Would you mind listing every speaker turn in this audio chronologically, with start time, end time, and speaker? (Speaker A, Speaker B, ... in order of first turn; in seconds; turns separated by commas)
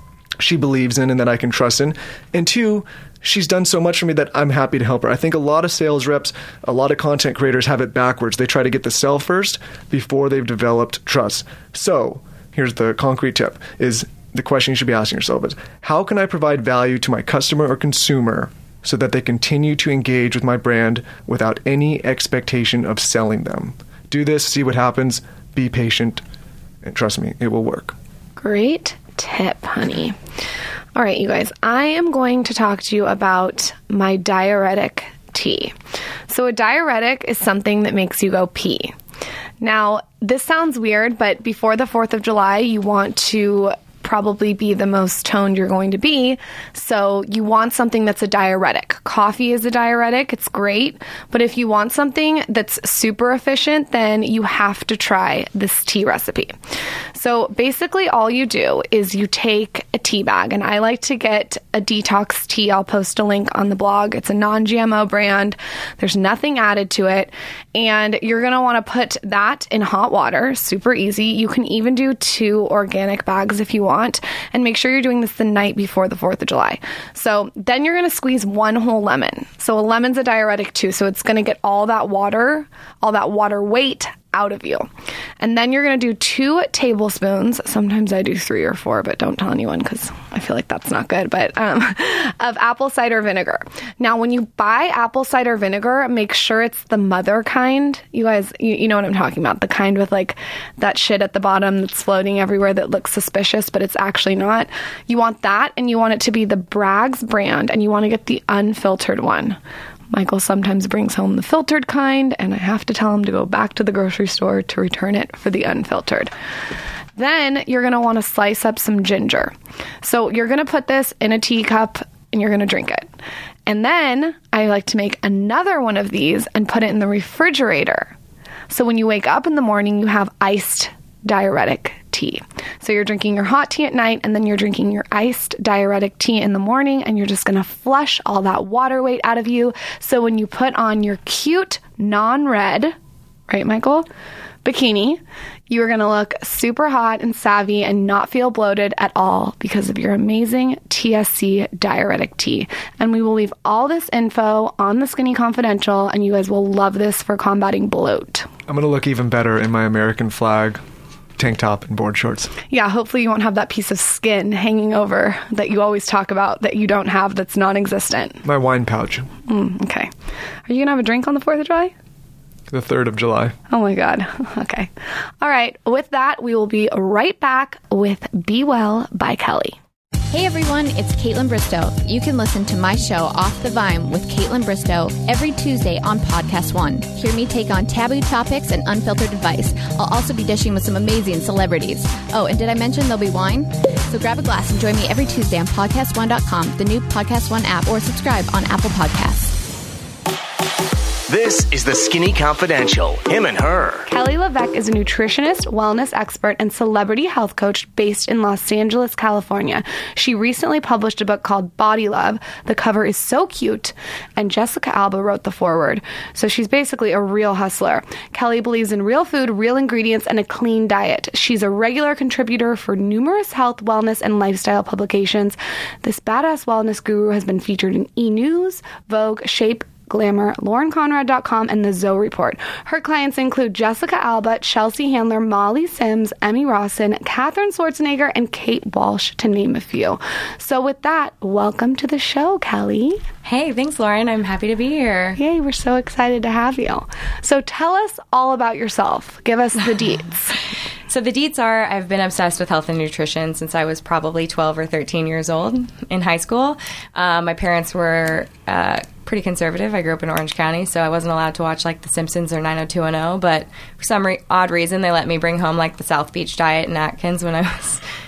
Speaker A: 0.4-26.2, Speaker A: 26.8-27.9, Speaker B: 28.4-30.1, Speaker B: 30.9-35.7, Speaker B: 36.3-38.9, Speaker B: 39.6-56.5, Speaker B: 57.1-84.9, Speaker B: 85.4-109.6, Speaker B: 110.1-116.3, Speaker B: 117.2-123.1, Speaker B: 123.7-128.1, Speaker B: 128.7-142.9, Speaker B: 143.5-144.1, Speaker B: 144.6-158.5, Speaker A: 158.7-160.8, Speaker A: 161.4-162.5, Speaker B: 162.7-168.4, Speaker A: 168.4-169.3, Speaker B: 169.5-170.1, Speaker B: 170.7-171.9, Speaker A: 172.7-173.5, Speaker B: 173.7-174.9, Speaker B: 175.4-179.8, Speaker C: 180.3-199.6, Speaker D: 201.3-204.1, Speaker B: 204.1-243.2, Speaker E: 243.4-245.4, Speaker B: 245.4-250.6, Speaker E: 251.1-268.0